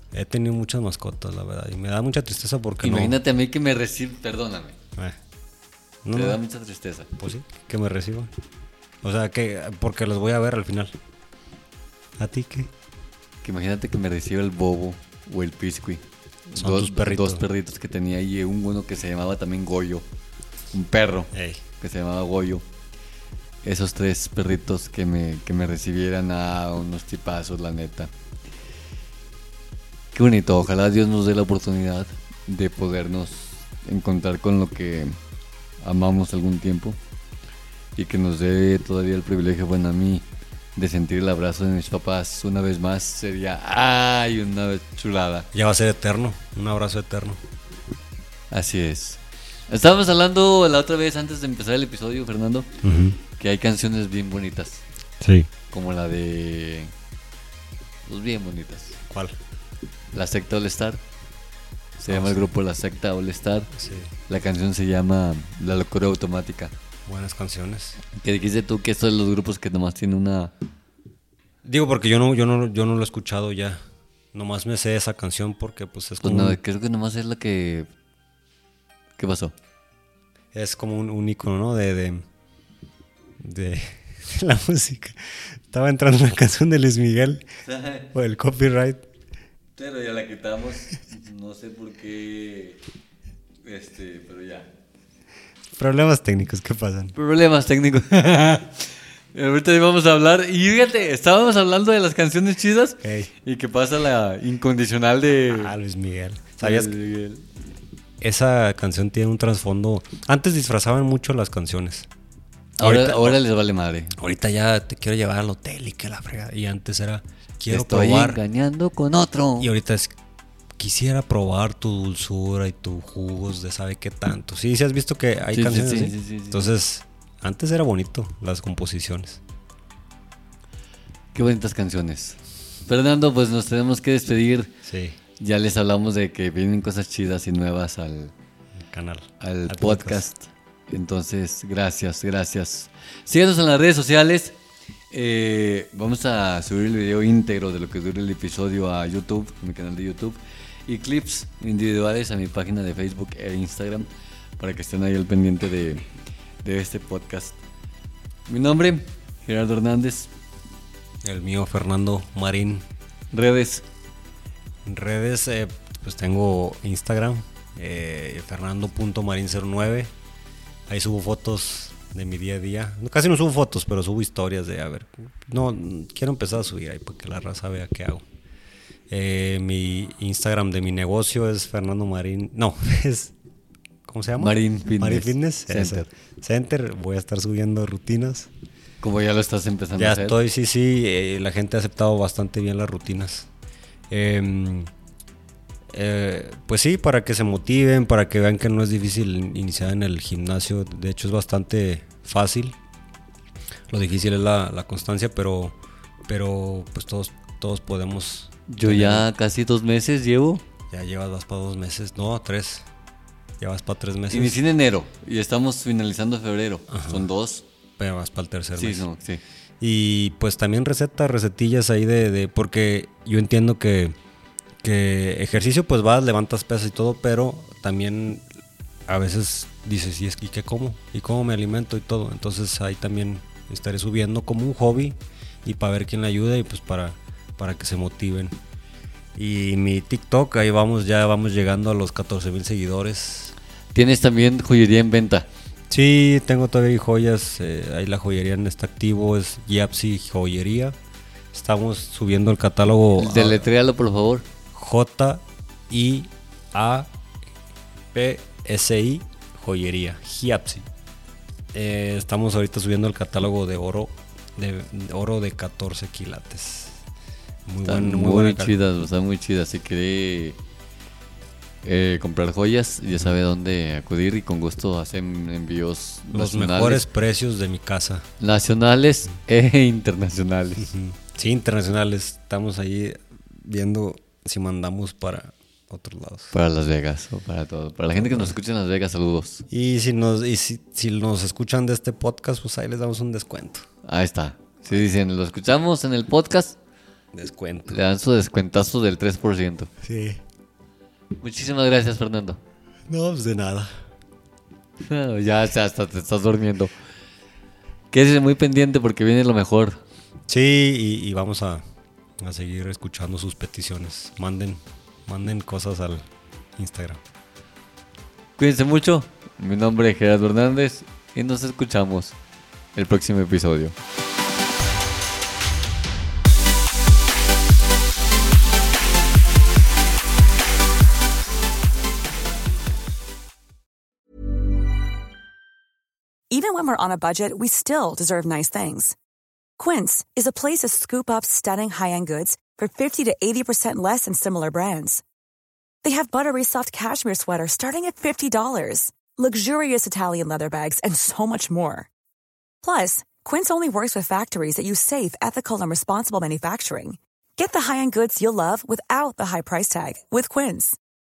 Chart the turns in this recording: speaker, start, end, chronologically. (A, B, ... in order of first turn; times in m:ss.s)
0:00.1-0:03.2 A
0:02.8-0:04.8 B
0:06.0-0:06.4 A
0:06.1-0:07.1 B
0:07.2-0:08.3 A
0:09.0-0:10.9 A
0:12.2-0:12.7 A
0:13.4-0:20.0 B
0:16.6-0:17.4 A
0:20.7-0:22.6 B
0:21.3-0:21.6 A
0:23.6-0:28.1 B
0:30.1-0:35.2 B
0:35.8-0:37.0 B
0:38.0-0:40.2 B
0:40.8-0:45.5 B
0:45.5-0:47.4 A
0:48.5-0:52.7 B
0:52.8-0:53.2 A
0:53.4-0:54.8 B
0:55.2-0:55.5 A
0:55.7-0:56.9 B
0:58.0-0:59.0 B
0:59.1-0:59.4 A
1:00.1-1:01.0 B
1:02.0-1:03.7 B
1:02.1-1:02.5 A
1:03.7-1:04.1 A
1:04.3-1:06.7 B
1:07.1-1:08.0 A
1:08.1-1:10.5 B
1:11.6-1:13.8 A
1:14.3-1:16.6 A
1:16.2-1:17.9 B
1:19.2-1:19.5 B
1:20.5-1:22.2 A
1:23.4-1:27.4 A
1:27.7-1:28.1 B
1:28.1-1:29.0 A
1:29.8-1:32.8 B
1:33.6-1:34.7 B
1:35.8-1:37.1 A
1:37.2-1:45.7 B
1:43.0-1:43.3 A
1:45.5-1:46.9 A
1:46.6-1:47.4 B
1:48.2-1:52.1 A
1:52.8-1:53.4 A
1:52.8-1:54.2 B
1:54.2-1:58.4 A
1:57.7-1:59.7 B
1:59.6-2:00.1 A
2:00.8-2:09.4 A
2:05.5-2:06.7 B
2:11.3-2:14.7 B
2:14.8-2:15.2 A
2:15.4-2:18.3 B
2:18.9-2:20.2 A
2:19.4-2:24.5 B
2:25.1-2:34.1 B
2:34.6-2:36.0 B
2:36.6-2:37.6 B
2:38.5-2:40.3 B
2:41.2-2:42.8 A
2:43.3-2:43.8 B
2:44.8-2:50.1 A
2:50.9-2:58.2 A
2:59.1-3:03.3 A
3:04.0-3:08.5 A
3:04.4-3:06.1 B
3:09.0-3:10.4 B
3:10.0-3:13.5 A
3:14.1-3:14.9 A
3:15.9-3:22.8 A
3:23.9-3:29.3 A
3:28.7-3:30.6 B
3:30.9-3:32.8 A
3:33.6-3:34.6 A
3:34.3-3:37.6 B
3:36.9-3:37.3 A
3:38.0-3:39.1 A
3:38.8-3:39.4 B
3:39.8-3:44.1 A
3:44.8-3:48.4 A
3:49.1-3:58.6 A
3:59.3-4:03.5 A
4:03.9-4:05.5 B
4:05.9-4:11.0 A
4:11.5-4:13.6 A
4:13.2-4:14.4 B
4:14.7-4:17.1 A
4:18.1-4:20.9 A
4:21.7-4:27.0 A
4:27.6-4:28.8 A
4:27.8-4:30.6 B
4:31.8-4:37.0 B
4:36.3-4:38.2 A
4:38.4-4:40.9 B
4:40.8-4:46.5 A
4:46.5-4:49.6 B
4:49.7-4:53.8 A
4:54.0-4:56.8 B
4:57.3-4:58.0 A
4:57.9-4:59.9 B
5:00.0-5:00.4 A
5:01.4-5:02.6 B
5:03.1-5:03.9 A
5:05.0-5:06.9 B
5:08.1-5:10.0 B
5:10.5-5:11.8 A
5:12.4-5:17.2 A
5:18.6-5:22.3 B
5:22.9-5:23.9 B
5:36.5-5:39.1 C
5:39.8-5:45.2 C
5:46.0-5:52.1 C
5:52.8-6:01.0 C